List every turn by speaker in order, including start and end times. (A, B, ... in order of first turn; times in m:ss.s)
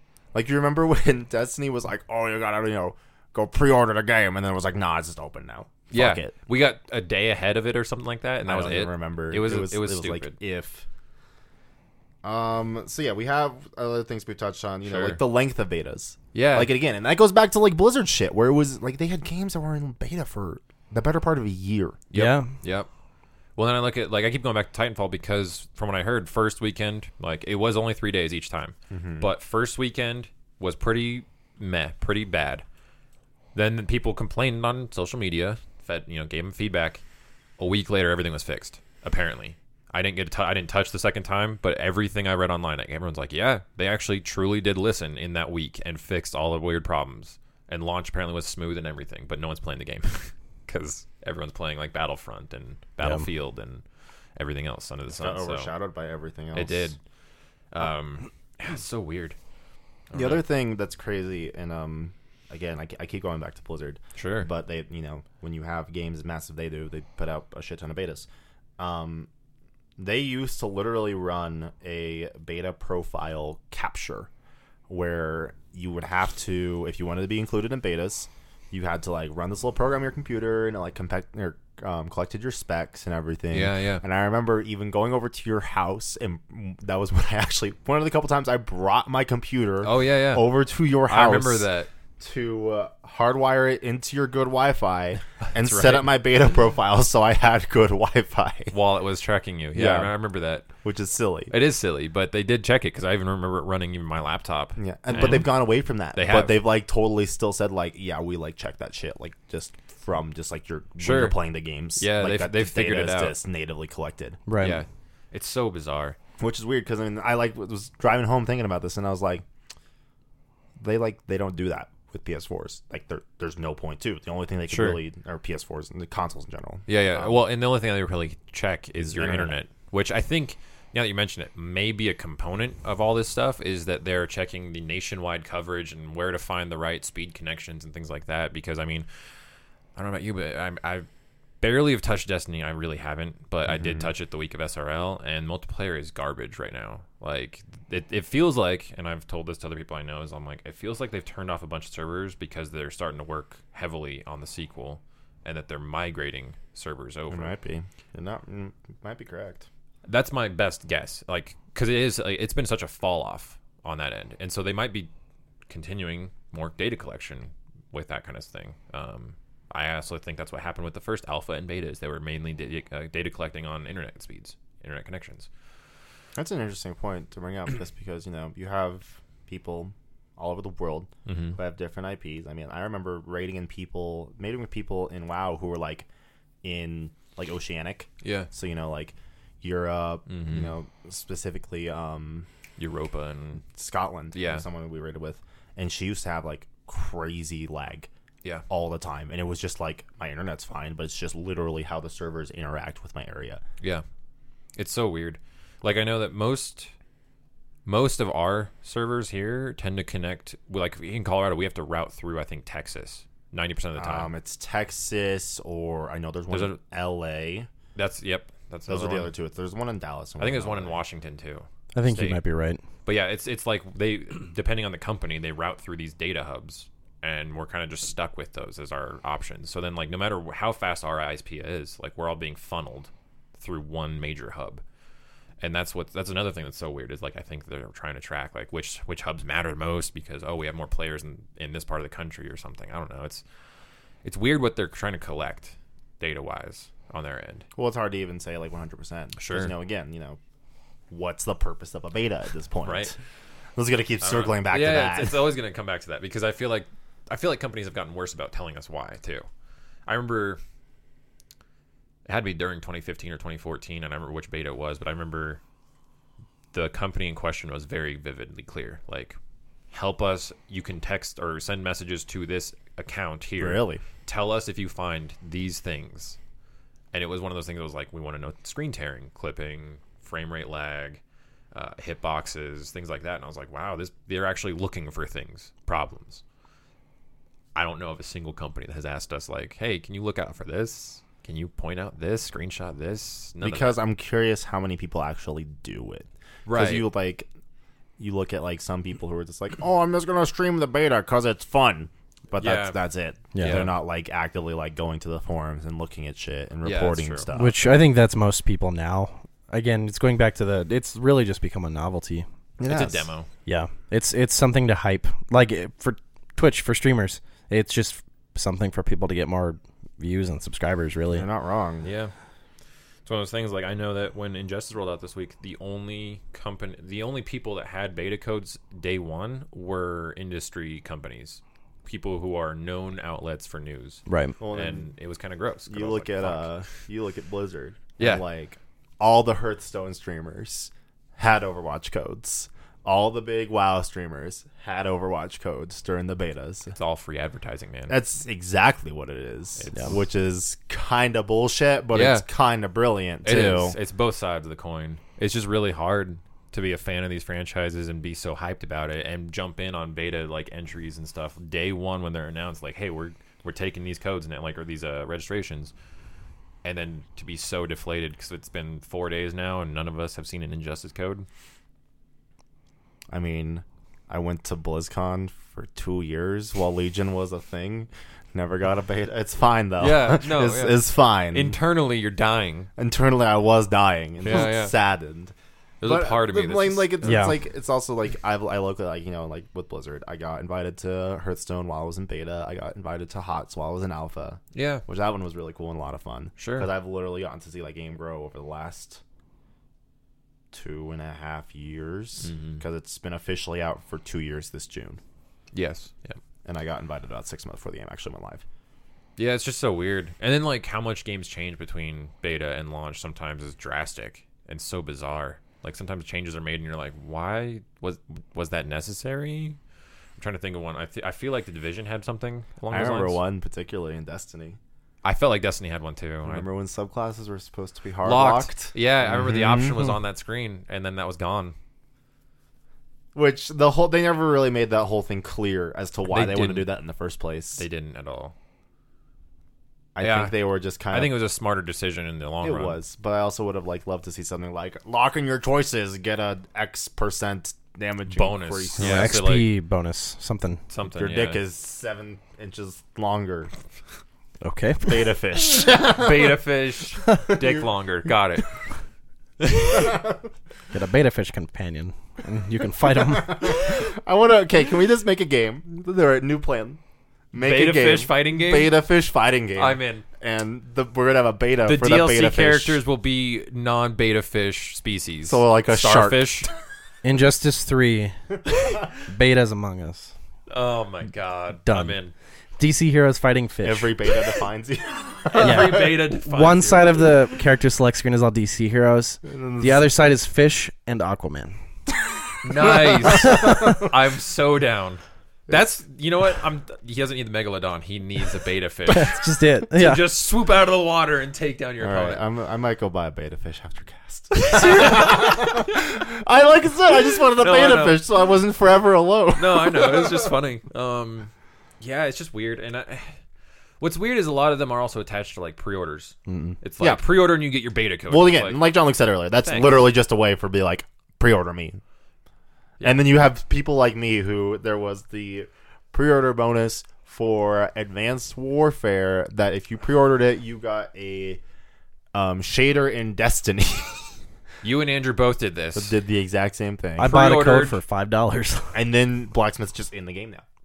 0:00.3-0:06.3 A
0:05.9-0:10.4 B
0:08.4-0:10.8 A
0:12.2-0:22.0 A
0:14.8-0:15.2 B
0:16.3-0:16.7 B
0:22.1-0:22.9 B
0:22.1-0:22.5 C
0:23.6-0:32.6 B
0:28.9-0:29.3 A
0:33.6-0:37.0 B
0:37.6-0:53.8 B
0:54.4-0:55.7 B
0:55.2-0:56.9 A
0:56.5-0:57.0 B
0:57.7-0:59.4 B
1:00.1-1:00.4 B
1:00.1-1:08.3 A
1:04.2-1:04.5 B
1:08.8-1:09.3 A
1:10.0-1:14.3 A
1:14.9-1:38.7 A
1:23.5-1:24.0 B
1:29.8-1:30.5 B
1:31.1-1:31.9 B
1:35.5-1:36.1 B
1:38.7-1:40.7 B
1:39.8-1:40.1 A
1:40.8-1:41.5 A
1:41.5-1:45.6 B
1:44.8-1:54.4 A
1:46.1-1:46.6 B
1:51.0-1:51.4 B
1:52.0-1:53.4 B
1:54.5-1:54.8 C
1:54.6-1:56.2 B
1:56.4-1:59.4 A
2:00.8-2:07.4 A
2:04.7-2:05.0 B
2:06.9-2:19.1 B
2:09.0-2:09.6 A
2:20.0-2:21.1 B
2:21.6-2:37.6 B
2:23.7-2:24.1 A
2:37.3-2:39.7 A
2:40.1-2:45.1 B
2:45.7-2:55.5 B
2:56.4-3:06.1 A
3:01.3-3:01.6 B
3:06.6-3:12.5 A
3:08.2-3:08.5 B
3:10.3-3:10.7 B
3:12.8-3:13.6 B
3:13.6-3:18.1 A
3:14.3-3:14.7 B
3:18.7-3:23.6 A
3:24.8-3:26.9 B
3:27.9-3:34.3 B
3:34.0-3:37.7 A
3:36.5-3:36.8 B
3:38.0-3:39.3 B
3:38.9-3:41.0 A
3:40.4-3:42.4 B
3:41.9-3:42.8 C
3:43.0-3:54.8 B
3:55.6-4:03.4 B
4:04.2-4:07.6 B
4:07.8-4:10.4 A
4:09.4-4:09.7 B
4:11.1-4:13.2 A
4:12.8-4:13.1 B
4:13.8-4:15.5 A
4:14.2-4:19.5 B
4:20.1-4:20.6 B
4:22.3-4:25.6 B
4:26.7-4:29.4 B
4:29.9-4:36.4 B
4:33.6-4:34.0 A
4:37.1-4:41.2 B
4:41.7-4:46.4 B
4:47.8-4:53.9 B
4:53.6-4:57.5 A
4:56.7-4:57.1 B
4:58.2-5:08.0 A
5:02.6-5:03.0 B
5:03.5-5:03.9 C
5:03.6-5:03.9 B
5:06.8-5:07.5 B
5:07.5-5:12.5 C
5:12.8-5:13.3 A
5:12.8-5:13.5 B
5:13.7-5:21.5 C
5:21.3-5:22.1 A
5:22.0-5:22.3 B
5:23.3-5:36.7 B
5:34.3-5:34.6 C
5:34.6-5:35.1 A
5:35.9-5:46.9 A
5:38.2-5:38.4 B
5:46.9-5:48.2 B
5:48.1-5:54.0 A
5:49.8-5:50.2 B
5:52.1-5:52.5 B
5:53.4-6:05.9 B
6:06.8-6:11.5 B
6:13.3-6:21.8 A
6:20.0-6:22.9 B
6:23.0-6:25.5 A
6:24.4-6:24.9 B
6:26.0-6:27.5 B
6:26.0-6:39.2 A
6:27.2-6:27.6 C
6:34.7-6:35.0 B
6:36.6-6:36.9 B
6:40.7-6:45.2 A
6:42.4-6:42.8 B
6:45.7-6:46.4 B
6:46.6-6:48.6 A
6:49.4-6:59.8 B
7:00.4-7:03.4 B
7:02.9-7:04.8 A
7:05.2-7:06.7 B
7:06.4-7:10.2 A
7:08.2-7:11.8 B
7:13.4-7:17.8 A
7:16.3-7:16.9 B
7:17.8-7:18.5 B
7:20.2-7:21.4 A
7:20.2-7:20.6 B
7:21.1-7:23.0 B
7:22.6-7:29.3 A
7:28.3-7:29.7 B
7:29.0-7:30.8 C
7:30.9-7:31.6 B
7:31.1-7:33.7 A
7:34.6-7:35.3 C
7:35.1-7:36.6 A
7:36.1-7:38.7 B
7:37.5-7:37.8 A
7:39.6-7:40.1 B
7:39.8-7:40.4 A
7:40.9-7:43.8 C
7:43.1-7:47.0 A
7:47.5-7:53.0 A
7:47.6-7:49.0 B
7:49.8-7:50.2 B
7:51.8-7:56.7 B
7:55.5-7:56.7 A
7:57.2-7:58.6 C
7:59.2-8:00.3 C
8:00.7-8:02.3 B
8:01.9-8:02.2 C
8:02.8-8:04.3 C
8:03.8-8:06.2 A
8:05.5-8:07.3 B
8:05.6-8:11.8 C
8:09.4-8:10.1 A
8:12.6-8:22.4 B
8:12.8-8:14.1 A
8:13.4-8:14.0 C
8:19.1-8:20.3 C
8:22.0-8:30.5 A
8:24.6-8:25.9 B
8:27.6-8:28.2 B
8:29.6-8:33.3 B
8:34.0-8:38.9 B
8:36.5-8:36.8 C
8:37.0-8:37.4 A
8:38.3-8:42.0 A
8:39.6-8:40.1 B
8:43.0-8:51.6 A
8:52.3-8:54.3 A
8:54.8-8:56.2 B
8:56.0-8:57.4 A
8:57.2-8:59.0 C
8:57.2-8:58.0 B
8:58.9-9:00.6 A